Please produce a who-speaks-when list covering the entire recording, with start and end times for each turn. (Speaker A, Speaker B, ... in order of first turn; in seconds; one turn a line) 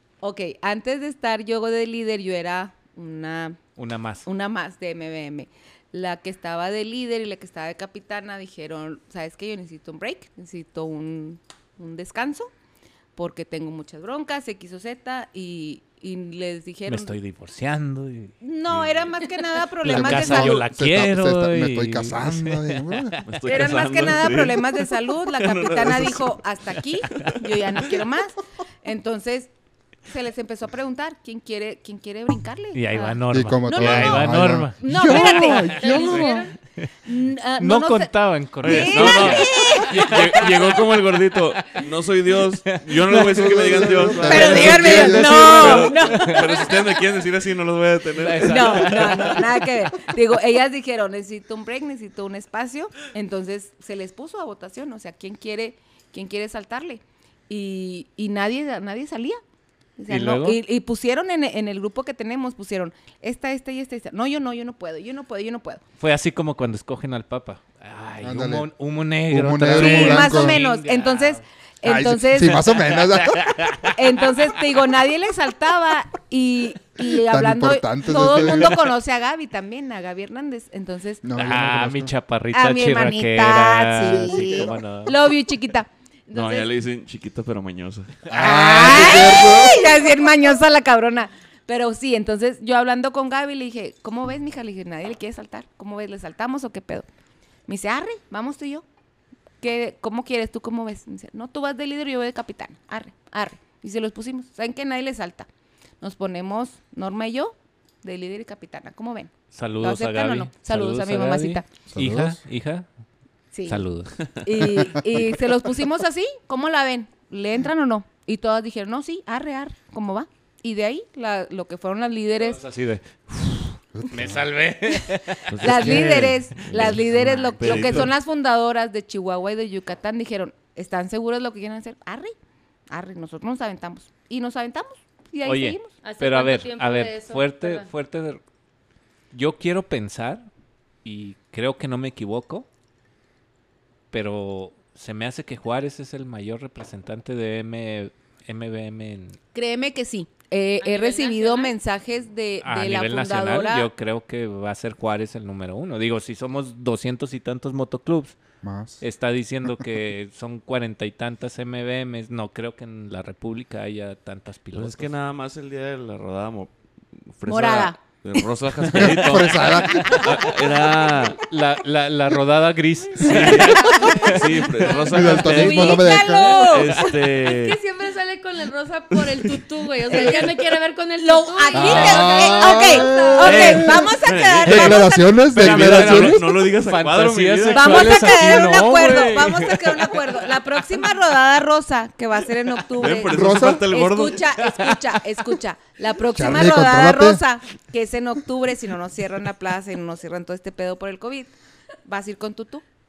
Speaker A: 0.2-3.6
Speaker B: 3.8-4.3
Speaker A: 4.2-12.5
Speaker A: 13.2-17.1
Speaker B: 16.9-18.4
Speaker A: 18.4-20.6
Speaker B: 19.8-23.3
Speaker C: 19.8-23.2
Speaker D: 23.2-24.8
Speaker A: 23.4-29.5
Speaker D: 25.4-26.4
Speaker A: 30.1-36.1
Speaker B: 32.7-36.9
Speaker C: 33.3-36.5
Speaker E: 35.8-36.5
Speaker A: 37.1-40.1
Speaker B: 37.6-41.0
Speaker D: 38.6-49.3
Speaker B: 41.6-46.6
Speaker C: 43.1-45.9
Speaker A: 44.2-46.8
Speaker B: 48.1-49.7
Speaker A: 48.4-59.4
Speaker A: 60.0-65.8
Speaker B: 60.1-60.6
Speaker B: 66.0-71.4
Speaker C: 68.2-68.7
Speaker C: 69.3-70.6
Speaker A: 69.8-72.7
Speaker C: 71.8-73.6
Speaker B: 72.8-74.3
Speaker A: 73.9-81.2
Speaker C: 77.3-78.8
Speaker C: 81.2-82.1
Speaker B: 81.3-85.2
Speaker A: 82.5-86.7
Speaker C: 84.1-84.7
Speaker D: 86.3-88.3
Speaker C: 88.3-90.0
Speaker A: 88.4-97.1
Speaker B: 88.5-89.1
Speaker A: 97.7-98.8
Speaker A: 99.6-105.5
Speaker A: 106.0-111.7
Speaker B: 109.5-112.9
Speaker C: 111.9-112.4
Speaker A: 113.5-113.8
Speaker B: 113.7-114.7
Speaker A: 114.4-122.6
Speaker B: 122.4-128.1
Speaker C: 124.0-124.4
Speaker D: 125.5-128.1
Speaker A: 125.6-132.3
Speaker A: 132.9-135.9
Speaker B: 135.4-138.4
Speaker E: 136.0-137.9
Speaker B: 139.3-140.5
Speaker B: 141.0-142.7
Speaker B: 144.1-149.4
Speaker A: 149.5-153.9
Speaker E: 150.8-151.8
Speaker B: 152.6-158.4
Speaker C: 158.6-159.0
Speaker B: 159.0-165.1
Speaker D: 164.7-171.4
Speaker A: 167.5-168.0
Speaker C: 168.9-170.5
Speaker B: 170.0-174.9
Speaker D: 173.2-176.0
Speaker A: 173.2-174.3
Speaker C: 175.0-176.8
Speaker A: 175.1-177.1
Speaker D: 176.6-177.8
Speaker E: 177.3-183.3
Speaker D: 179.1-179.6
Speaker A: 180.1-180.6
Speaker A: 181.2-185.3
Speaker C: 181.7-186.6
Speaker B: 183.4-184.0
Speaker D: 184.2-188.8
Speaker B: 185.5-190.5
Speaker A: 187.7-201.5
Speaker D: 192.9-194.5
Speaker C: 193.3-193.9
Speaker C: 196.3-197.4
Speaker A: 202.1-202.8